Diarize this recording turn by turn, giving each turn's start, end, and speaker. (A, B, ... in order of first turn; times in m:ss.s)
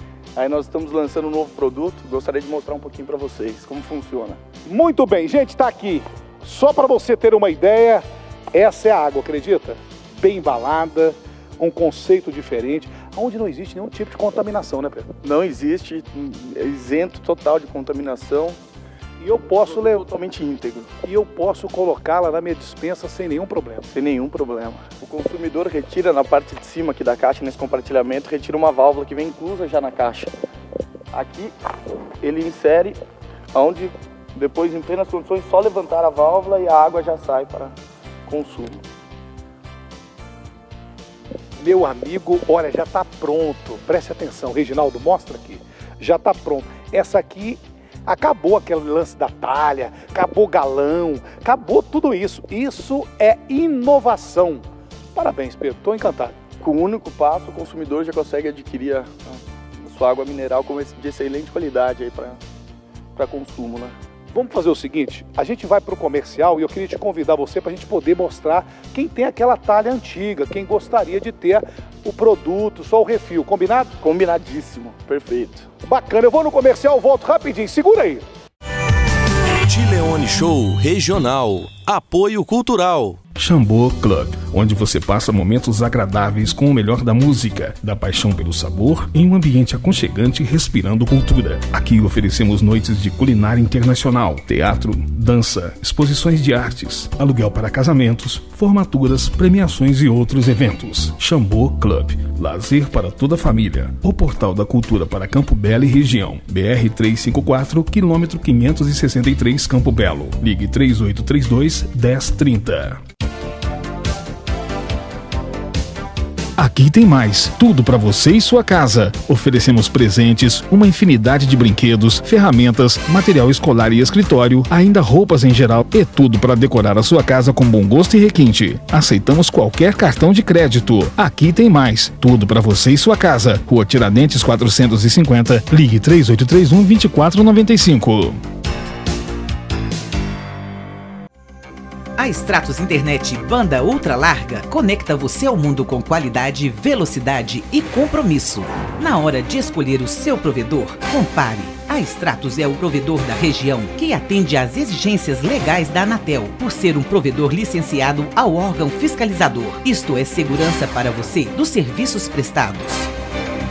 0:00.4-0:04.4 A
0:04.7-0:15.1 B
0:15.2-0:18.6 A
0:19.2-0:20.0 B
0:19.6-0:20.9 A
0:21.0-0:23.9 B
0:23.9-0:30.3 A
0:31.1-0:31.5 A
0:32.2-0:33.0 A
0:33.5-0:37.7 A
0:38.3-0:38.8 A
0:41.6-0:56.4 B
0:56.6-1:02.4 A
1:03.2-1:03.9 A
1:04.3-1:13.9 B
1:14.0-1:15.7 A
1:15.8-1:18.2 B
1:19.7-1:23.2 C
1:23.4-1:53.0 D
1:56.6-2:18.4 D
2:22.2-2:43.1 E